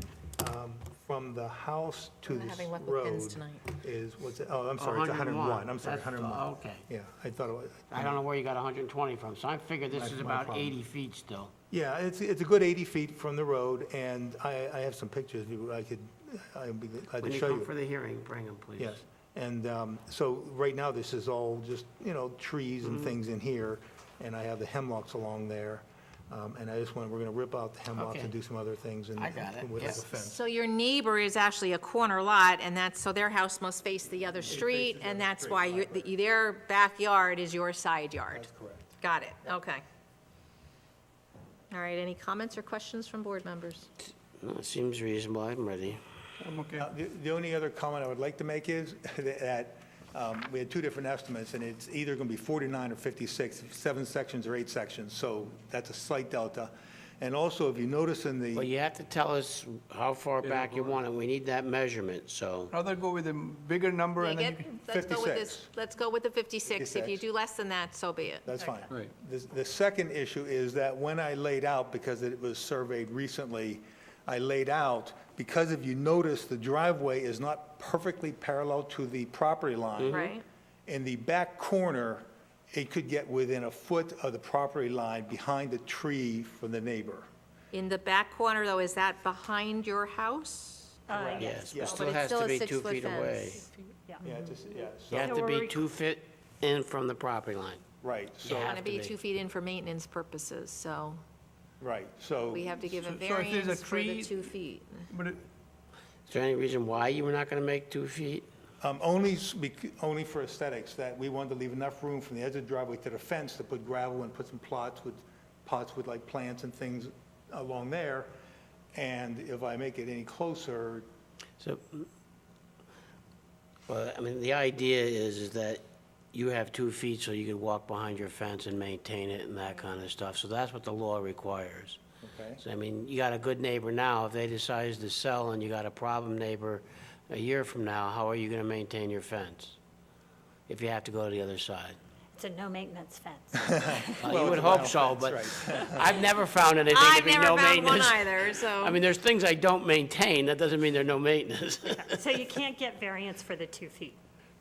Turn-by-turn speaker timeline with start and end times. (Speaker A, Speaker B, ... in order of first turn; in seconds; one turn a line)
Speaker A: 0.4-8.2
Speaker B: 2.3-3.6
Speaker C: 4.8-6.8
Speaker C: 7.9-11.5
Speaker A: 9.9-10.8
Speaker A: 11.7-17.7
Speaker C: 17.2-19.0
Speaker A: 18.8-30.4
Speaker C: 22.8-23.1
Speaker C: 27.9-28.3
Speaker C: 29.2-30.0
Speaker B: 30.1-38.5
Speaker A: 34.4-36.1
Speaker A: 38.3-38.9
Speaker B: 39.0-39.8
Speaker B: 41.7-43.9
Speaker C: 44.0-46.0
Speaker D: 46.4-46.9
Speaker A: 46.8-58.7
Speaker C: 58.5-62.7
Speaker D: 62.7-64.7
Speaker B: 64.2-68.5
Speaker A: 64.9-65.7
Speaker A: 66.7-67.2
Speaker A: 68.5-80.3
Speaker E: 68.6-68.9
Speaker C: 80.0-80.3
Speaker B: 80.1-80.4
Speaker A: 80.9-87.3
Speaker B: 87.7-91.0
Speaker E: 91.1-92.2
Speaker A: 91.1-92.0
Speaker C: 91.4-93.6
Speaker B: 91.8-93.7
Speaker E: 94.0-94.5
Speaker A: 94.2-95.4
Speaker C: 95.1-97.8
Speaker E: 95.2-95.8
Speaker A: 98.0-98.8
Speaker C: 98.4-99.1
Speaker B: 98.6-101.2
Speaker A: 101.8-102.8
Speaker B: 102.5-105.1
Speaker D: 102.9-104.5
Speaker D: 105.1-105.4
Speaker C: 106.3-108.5
Speaker A: 108.8-118.3
Speaker A: 118.9-121.1
Speaker C: 121.6-122.1
Speaker C: 123.9-132.0
Speaker A: 132.2-132.6
Speaker C: 132.6-139.8
Speaker C: 140.7-142.0
Speaker E: 142.4-144.3
Speaker A: 143.6-146.1
Speaker C: 144.2-152.4
Speaker B: 146.9-149.0
Speaker E: 151.9-154.2